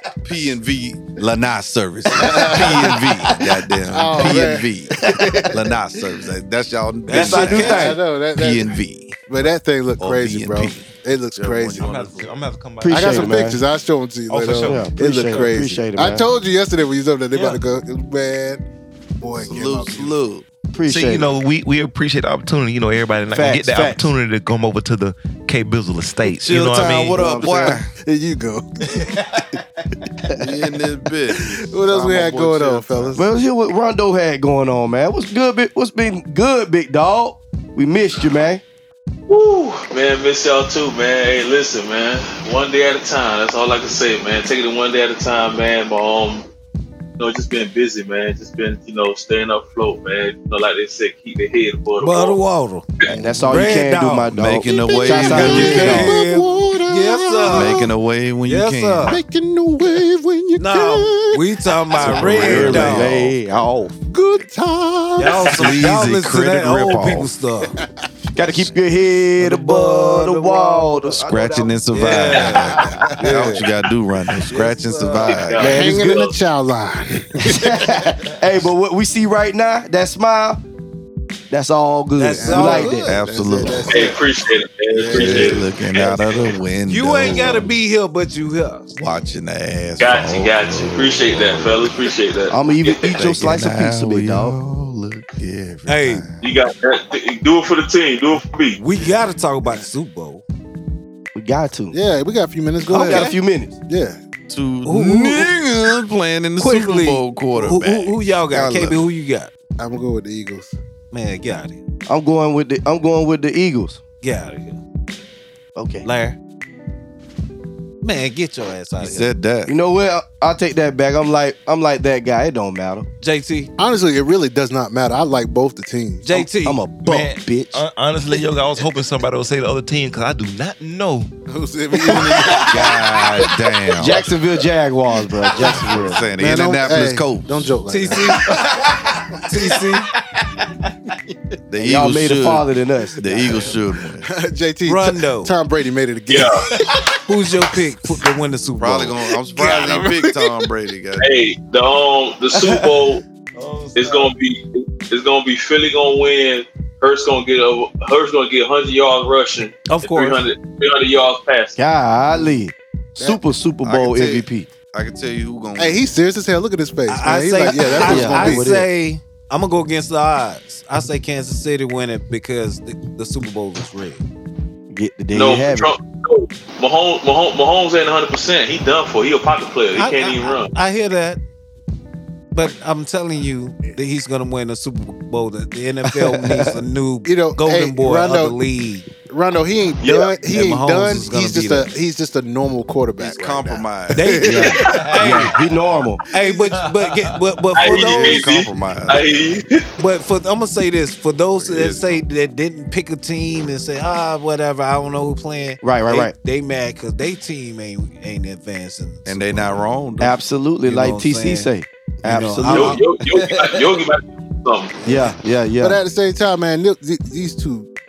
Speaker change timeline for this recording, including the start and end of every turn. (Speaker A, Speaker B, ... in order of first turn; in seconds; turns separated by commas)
Speaker A: 0.2-4.9, Speaker B: 2.1-3.0, Speaker C: 2.4-3.5, Speaker B: 3.9-5.6, Speaker C: 4.9-5.5, Speaker A: 5.5-9.2, Speaker D: 7.1-8.0, Speaker C: 7.1-8.0, Speaker B: 7.5-12.1, Speaker A: 10.0-12.3, Speaker E: 11.8-13.5, Speaker C: 12.8-13.6, Speaker B: 12.9-18.6, Speaker E: 14.3-15.4, Speaker C: 14.6-16.3, Speaker B: 19.2-20.1, Speaker A: 19.4-20.5, Speaker C: 20.7-21.3, Speaker E: 20.9-27.2, Speaker C: 23.3-24.1, Speaker A: 26.3-27.9, Speaker C: 26.9-27.8, Speaker B: 27.3-29.1, Speaker A: 30.3-33.2, Speaker B: 31.3-33.3, Speaker C: 33.1-38.6, Speaker F: 39.3-46.4, Speaker F: 47.2-52.4, Speaker D: 52.0-52.9, Speaker B: 53.1-53.6, Speaker C: 53.2-56.1, Speaker D: 53.5-54.3, Speaker A: 54.3-56.1, Speaker B: 54.6-57.9, Speaker D: 55.0-57.8, Speaker A: 57.5-59.2, Speaker D: 58.4-59.2, Speaker B: 59.0-62.0, Speaker D: 60.6-63.2, Speaker A: 62.0-63.7, Speaker C: 62.0-64.0, Speaker B: 64.1-65.8, Speaker D: 65.2-67.8, Speaker A: 65.3-67.3, Speaker C: 68.3-73.5, Speaker D: 69.4-71.0, Speaker A: 71.0-76.0, Speaker D: 71.9-72.9, Speaker B: 72.8-73.7, Speaker D: 74.4-76.1, Speaker F: 75.2-76.4, Speaker B: 75.6-78.1, Speaker C: 75.6-76.0, Speaker C: 77.4-80.6, Speaker C: 81.5-83.1, Speaker D: 82.2-83.2, Speaker B: 82.4-84.2, Speaker A: 83.0-84.2, Speaker F: 83.9-86.6, Speaker A: 84.9-87.7, Speaker B: 85.1-85.5, Speaker D: 86.8-88.9, Speaker A: 88.9-92.0, Speaker B: 89.0-89.4, Speaker F: 90.0-93.2, Speaker C: 92.5-94.5, Speaker A: 93.1-96.5, Speaker D: 95.9-96.2, Speaker F: 96.4-98.8, Speaker D: 98.7-100.4, Speaker C: 101.3-102.0, Speaker B: 101.9-103.3, Speaker C: 102.9-103.8, Speaker D: 102.9-103.3, Speaker B: 103.9-104.2, Speaker A: 104.5-108.9, Speaker D: 104.8-105.5, Speaker D: 106.6-109.5, Speaker C: 108.5-108.9, Speaker B: 109.8-110.7, Speaker D: 111.1-111.8, Speaker C: 112.1-114.0, Speaker D: 114.2-114.8, Speaker C: 115.8-116.1, Speaker D: 116.0-116.4, Speaker D: 118.0-119.3, Speaker A: 119.0-119.7, Speaker C: 119.7-123.1, Speaker D: 123.2-123.7, Speaker B: 123.8-126.5, Speaker D: 126.2-126.8, Speaker C: 126.5-127.8, Speaker E: 127.0-131.3, Speaker B: 131.5-132.9, Speaker C: 132.0-133.0, Speaker A: 132.2-134.3, Speaker C: 133.9-136.2, Speaker A: 135.5-138.2, Speaker B: 135.5-138.5, Speaker D: 137.9-138.8, Speaker E: 138.8-139.8, Speaker D: 139.4-140.1, Speaker A: 141.7-144.3, Speaker C: 141.8-143.5, Speaker B: 144.2-146.6, Speaker D: 144.8-145.5, Speaker F: 146.3-146.6, Speaker D: 147.2-149.2, Speaker A: 148.8-151.4, Speaker B: 149.6-150.7, Speaker F: 151.2-153.2, Speaker E: 153.5-154.3, Speaker F: 153.9-161.8, Speaker D: 159.9-160.4, Speaker C: 161.8-164.7, Speaker A: 163.8-166.1, Speaker B: 165.7-168.7, Speaker D: 167.1-174.2, Speaker C: 168.0-168.8, Speaker C: 174.9-175.9, Speaker F: 175.3-180.7, Speaker D: 180.0-181.4, Speaker D: 182.5-189.1, Speaker C: 186.1-186.8, Speaker B: 187.2-188.6, Speaker B: 189.2-195.0, Speaker F: 190.0-190.3, Speaker D: 190.4-191.9, Speaker A: 193.2-194.7, Speaker D: 194.1-195.6, Speaker C: 194.4-196.2, Speaker E: 194.8-195.4, Speaker D: 196.3-198.4, Speaker E: 196.5-197.4, Speaker A: 197.8-199.7, Speaker F: 197.8-199.8, Speaker D: 200.0-209.8, Speaker A: 201.5-202.2, Speaker C: 205.8-206.3, Speaker A: 209.2-210.4, Speaker C: 210.2-213.6, Speaker D: 210.8-211.7, Speaker D: 212.2-213.0, Speaker F: 212.7-215.0, Speaker C: 215.0-216.0, Speaker B: 215.8-217.9